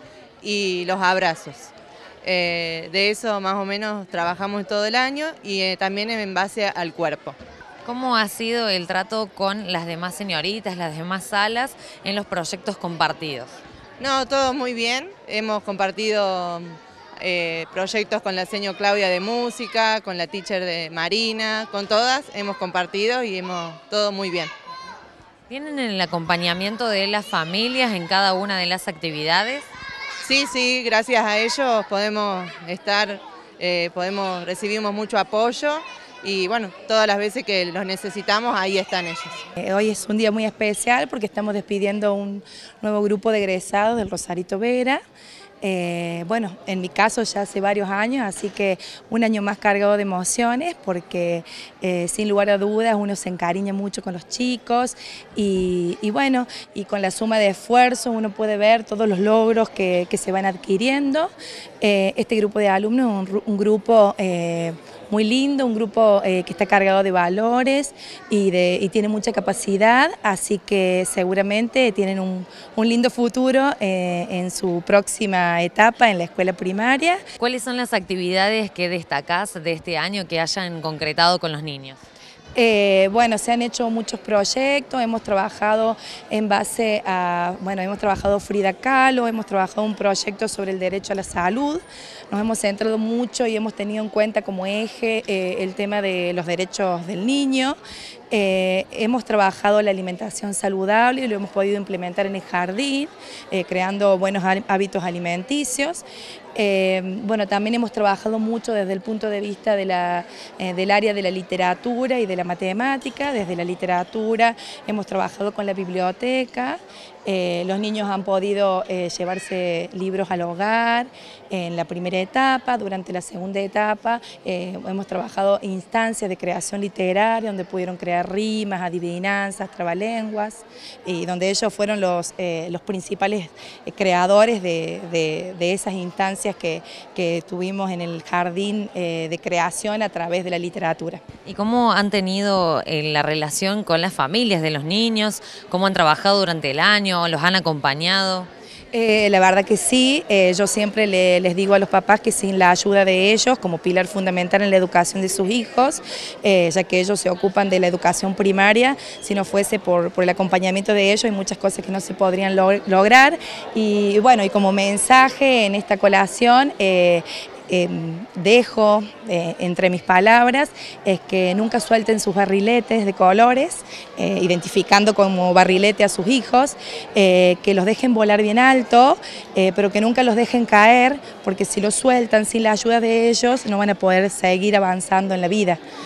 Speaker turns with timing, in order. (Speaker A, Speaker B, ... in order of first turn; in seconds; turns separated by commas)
Speaker A: 0.4-1.7, Speaker A: 2.2-7.4, Speaker B: 7.8-13.6, Speaker A: 14.0-24.5, Speaker B: 25.5-29.7, Speaker A: 30.2-39.5, Speaker C: 39.6-45.0, Speaker C: 45.6-77.2, Speaker B: 77.4-82.0, Speaker C: 82.5-97.8, Speaker C: 98.3-106.0, Speaker C: 106.6-141.2, Speaker B: 141.5-148.5, Speaker C: 148.9-185.8